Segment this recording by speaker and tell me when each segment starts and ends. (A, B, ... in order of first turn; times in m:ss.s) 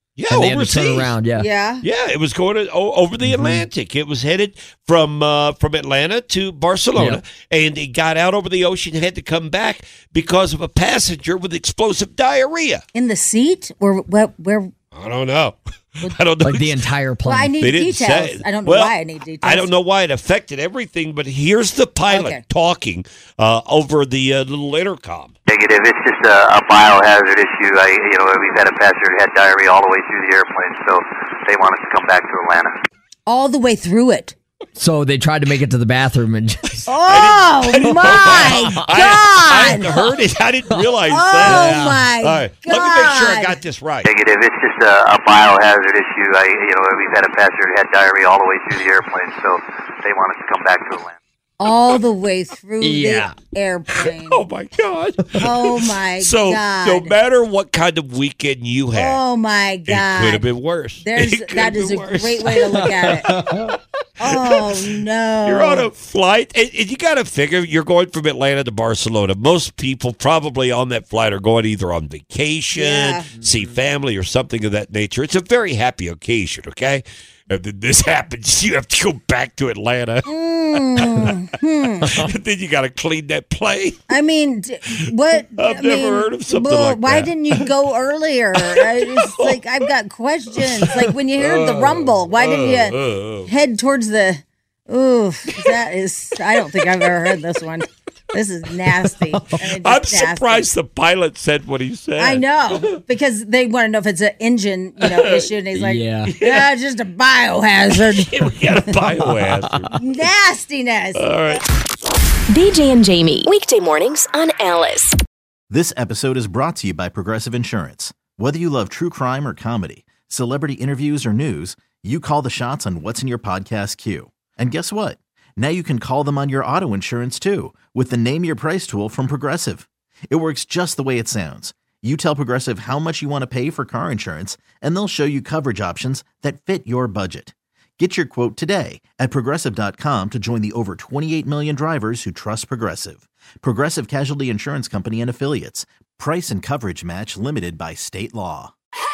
0:00.2-0:01.1 A
0:00.3-0:01.5 B
0:01.4-0:01.8 C
0:01.8-0:12.8 A
0:03.2-0:03.6 B
0:13.0-0:14.7 C
0:14.9-0:16.8 A
0:16.4-0:17.6 B
0:17.2-0:19.7 C
0:17.6-0:25.3 A
0:22.1-0:22.4 C
0:25.5-0:32.8 D
0:33.3-0:34.4 C
0:34.8-0:36.8 B
0:36.9-0:39.9 C
0:37.1-0:44.1 A
0:38.0-0:38.7 B
0:41.1-0:43.6 C
0:41.4-0:41.9 B
0:44.0-0:51.2 D
0:51.6-0:54.4 C
0:52.8-0:53.4 B
0:54.3-0:59.2 A
0:55.4-0:57.1 C
0:58.9-1:00.5 C
0:59.9-1:02.9 A
1:01.0-1:03.3 C
1:02.5-1:03.8 B
1:04.2-1:05.9 C
1:05.4-1:20.3 A
1:12.7-1:13.3 C
1:20.2-1:22.1 C
1:21.0-1:21.3 A
1:22.1-1:24.0 A
1:24.1-1:40.7 C
1:25.6-1:27.7 A
1:28.6-1:29.6 A
1:30.6-1:33.5 A
1:39.6-1:42.4 A
1:42.2-1:48.3 C
1:45.7-1:46.3 B
1:46.3-1:46.7 A
1:48.1-1:50.0 A
1:49.5-1:49.9 B
1:50.0-1:51.6 C
1:51.2-1:51.6 A
1:52.5-1:55.2 E
1:55.7-2:28.7 F